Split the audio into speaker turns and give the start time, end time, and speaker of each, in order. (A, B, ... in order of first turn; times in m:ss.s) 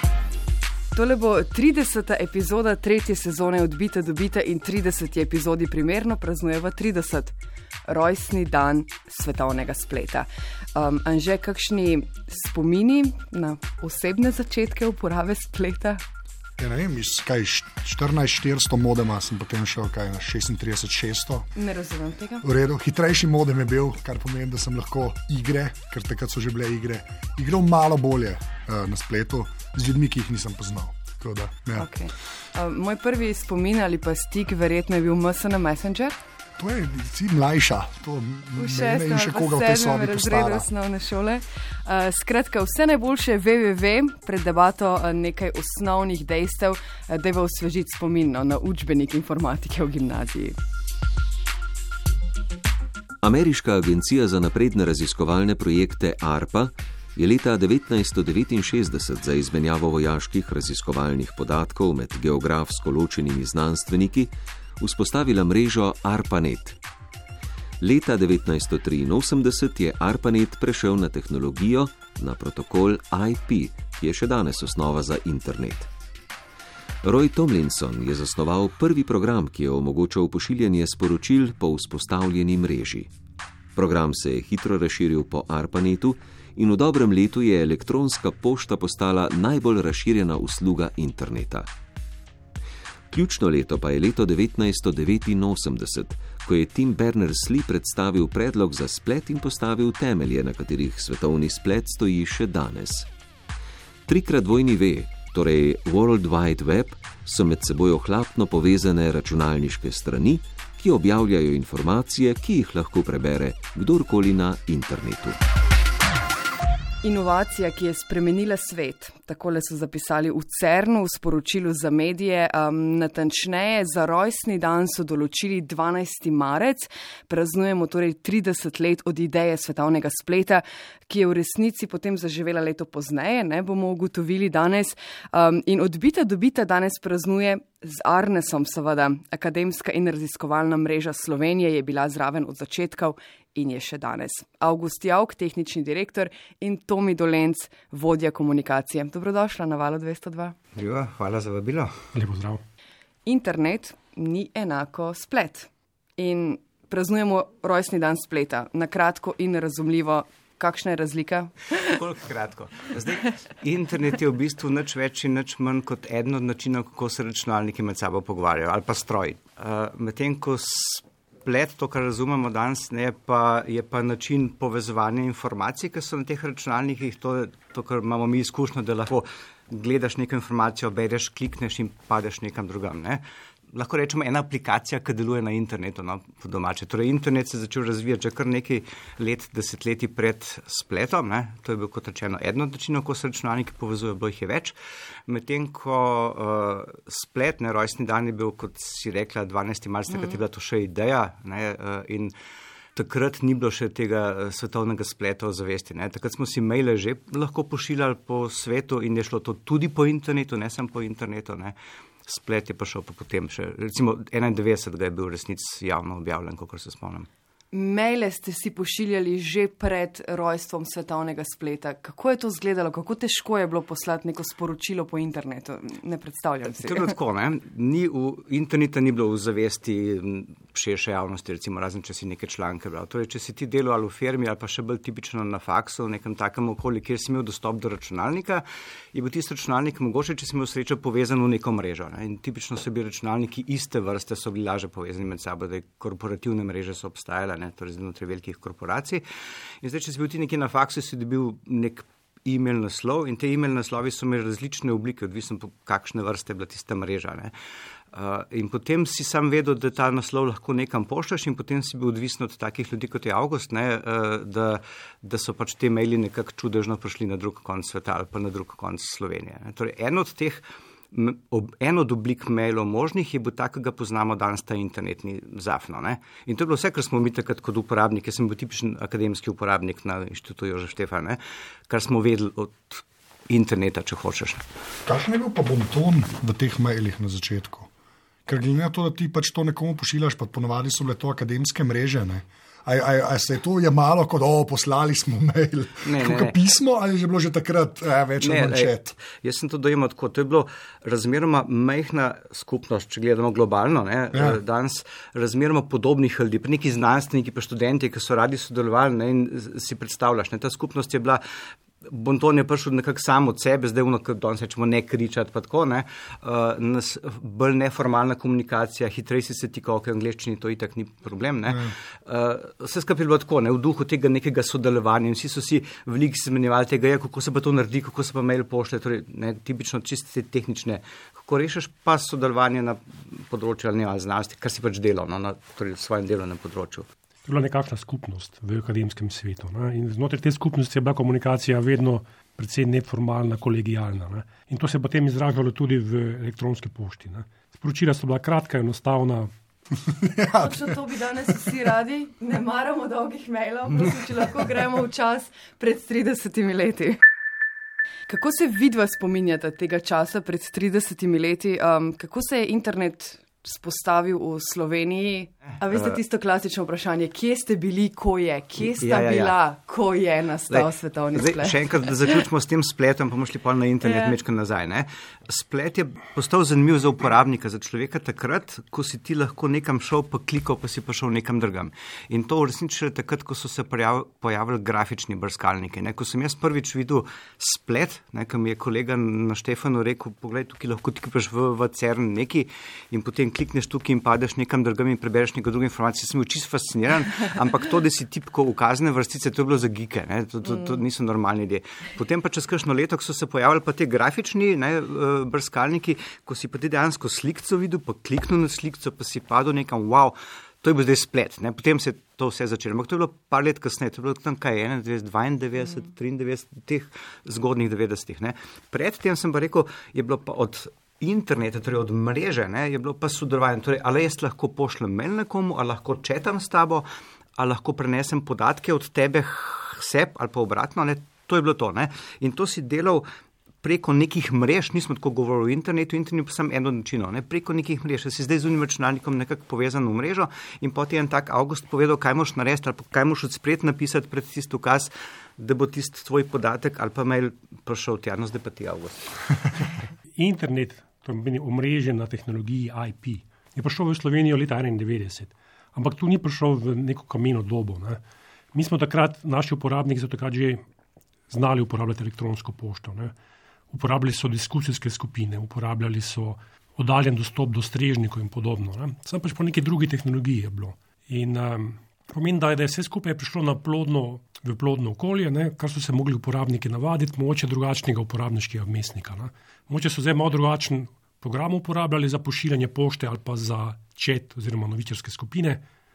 0:00.9-0:07.3 A
0:07.9-0:16.0 A
0:16.6-0:21.5 B
0:21.6-0:22.4 A
0:22.4-0:31.9 B
0:31.8-0:36.2 A
0:36.6-0:40.6 B
0:38.6-0:50.6 A
0:53.2-1:06.8 C
1:07.8-1:15.9 C
1:17.0-1:23.1 C
1:23.7-1:31.7 C
1:33.1-1:43.1 C
1:44.0-1:55.4 C
1:57.0-2:30.5 A
2:30.7-2:32.0 D
2:32.1-2:32.6 E
2:33.2-2:42.0 A
2:41.8-3:14.7 D
3:15.2-3:22.3 D
3:22.9-3:37.3 D
3:37.7-3:47.1 A
3:46.7-4:09.2 D
4:09.8-4:17.5 D
4:18.1-4:44.6 D
4:45.0-4:47.9 B
4:48.4-4:59.2 B
4:56.0-4:56.6 D
4:58.4-5:11.4 D
5:04.3-5:04.6 B
5:12.0-5:37.1 D
5:37.4-5:49.5 E
5:50.0-5:50.9 B
5:50.6-5:57.2 A
5:58.3-6:11.8 A
6:09.0-6:09.5 D
6:10.7-7:07.0 D
6:14.0-6:14.3 A
7:07.6-7:13.2 D
7:13.8-7:29.3 D
7:30.4-7:38.2 E
7:38.7-7:40.8 E
7:41.5-7:43.3 E
7:43.9-8:05.8 E